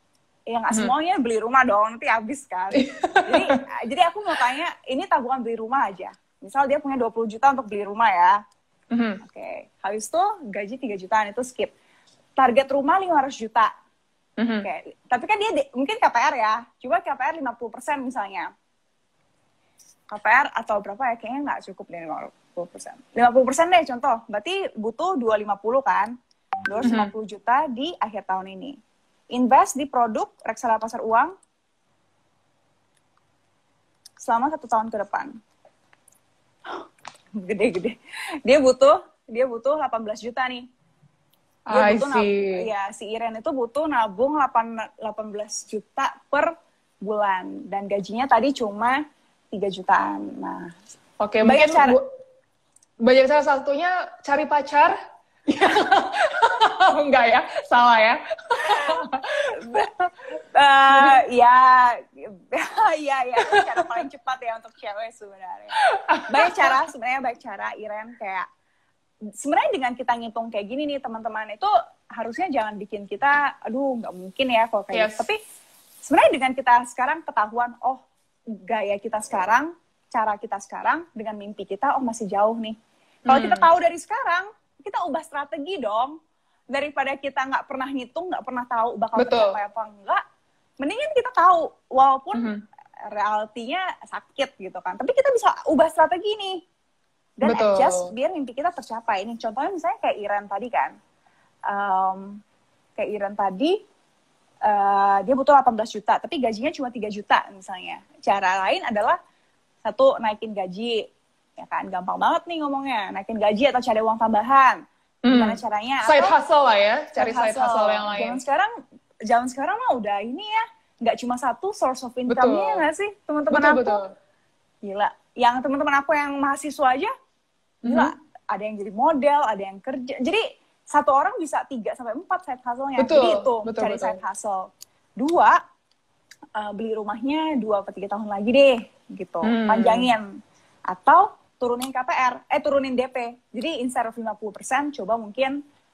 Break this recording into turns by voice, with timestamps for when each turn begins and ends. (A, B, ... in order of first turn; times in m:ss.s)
0:00.5-0:08.4 A
0:02.7-0:03.6 B
0:08.9-0:09.2 B
0:09.2-0:11.7 A
0:12.4-0:13.7 A
0:14.4-0:14.7 B
0:14.6-0:18.5 A
0:20.1-0:26.1 A
0:26.6-0:28.8 A
0:26.8-0:27.1 B
0:29.3-0:31.3 A
0:34.2-0:35.3 A
0:37.4-0:40.6 A
0:41.7-0:42.6 B
0:41.7-0:49.0 A
0:49.5-0:50.7 A
0:51.2-0:52.0 B
0:51.4-0:52.0 A
0:53.0-0:55.0 B
0:55.5-1:00.1 B
0:59.6-0:59.9 A
1:00.5-1:05.8 A
1:03.5-1:04.0 B
1:05.8-1:06.8 B
1:06.3-1:08.4 A
1:09.4-1:15.4 A
1:14.9-1:15.2 B
1:16.0-1:18.0 A
1:18.6-1:22.8 A
1:23.3-1:23.7 B
1:23.3-1:26.2 A
1:26.7-1:30.2 A
1:29.2-1:29.6 B
1:30.8-1:32.5 A
1:32.3-1:32.6 B
1:33.1-1:36.6 A
1:37.4-1:40.9 A
1:37.4-1:38.1 B
1:41.7-1:42.4 A
1:43.0-1:43.8 A
1:44.6-1:49.2 A
1:49.8-1:51.0 A
1:51.6-1:56.3 A
1:55.2-1:58.4 B
1:57.1-1:58.7 A
1:59.3-2:04.0 A
2:02.3-2:02.8 B
2:03.5-2:04.1 B
2:04.8-2:07.1 A
2:07.8-2:08.1 B
2:07.8-2:15.6 A
2:13.0-2:14.2 B
2:16.6-2:20.3 A
2:19.4-2:20.1 B
2:20.9-2:25.6 A